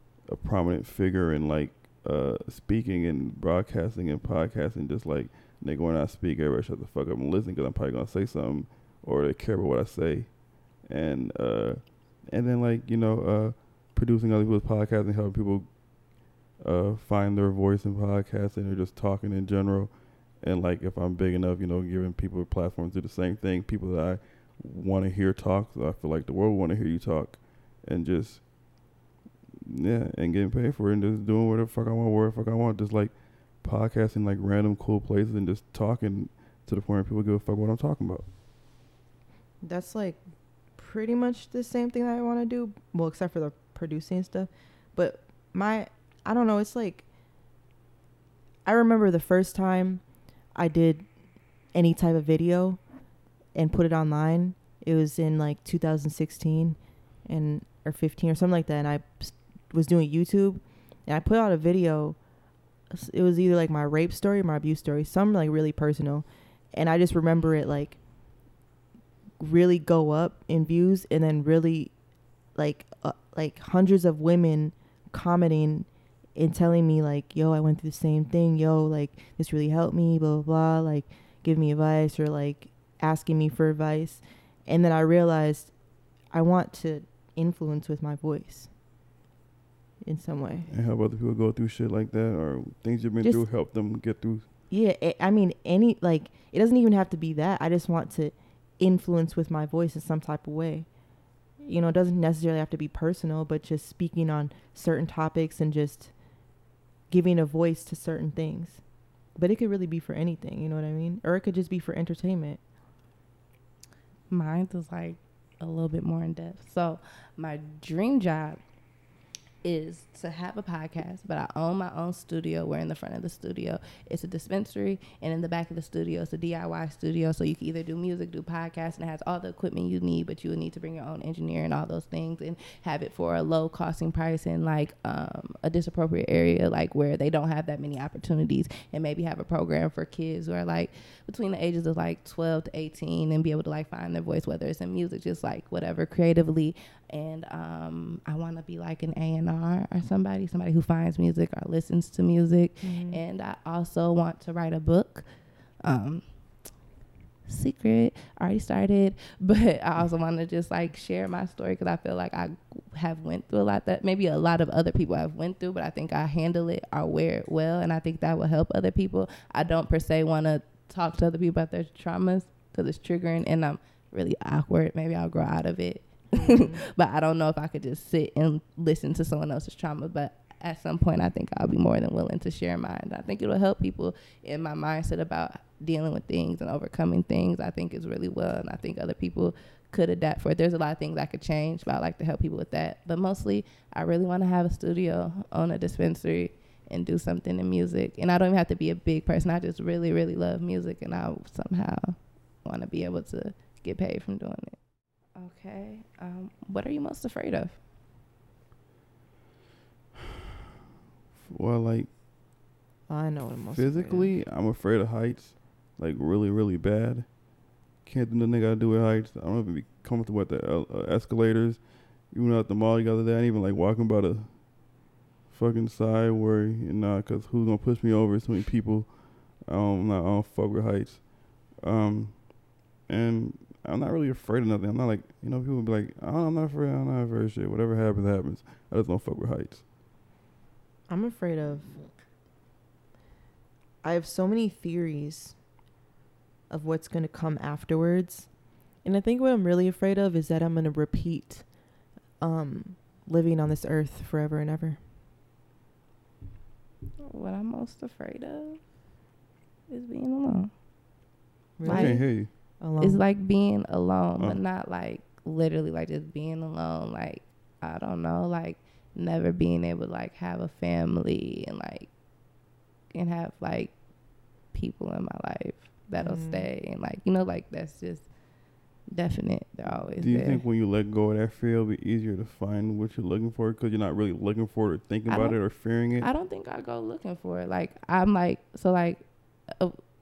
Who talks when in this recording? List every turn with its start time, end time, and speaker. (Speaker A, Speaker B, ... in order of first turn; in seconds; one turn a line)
Speaker A: 0.3-15.8
Speaker A: 16.6-28.5
Speaker A: 29.6-38.2
Speaker B: 39.6-40.2
Speaker B: 40.8-47.1
Speaker B: 48.6-50.0
Speaker B: 50.5-51.1
Speaker B: 51.7-52.8
Speaker B: 53.5-62.2
Speaker B: 62.9-68.0
Speaker B: 69.4-71.9
Speaker B: 72.5-85.7
Speaker B: 86.3-88.7
Speaker B: 90.0-90.7
Speaker A: 90.7-94.5
Speaker B: 94.7-100.9
Speaker B: 101.6-106.1
Speaker B: 107.1-108.8
Speaker B: 109.4-112.6
Speaker C: 114.3-118.6
Speaker C: 119.6-155.3
Speaker B: 152.8-153.2
Speaker C: 155.8-156.2
Speaker C: 157.4-204.8
Speaker B: 176.3-176.8
Speaker C: 205.3-207.8
Speaker A: 211.5-212.1
Speaker B: 213.1-214.3
Speaker A: 213.7-217.3
Speaker A: 218.0-224.7
Speaker A: 225.5-232.6
Speaker A: 233.1-239.8
Speaker B: 241.1-242.1
Speaker B: 244.0-245.6
Speaker B: 246.7-248.5
Speaker B: 249.0-251.7
Speaker B: 252.4-255.0
Speaker C: 257.2-258.8
Speaker C: 259.9-260.7
Speaker B: 261.8-263.2
Speaker C: 261.9-262.4
Speaker A: 261.9-262.5
Speaker C: 263.0-272.1
Speaker C: 273.1-273.9
Speaker C: 274.7-278.3
Speaker B: 276.2-276.7
Speaker C: 279.1-280.6
Speaker A: 280.2-286.3
Speaker C: 285.3-290.0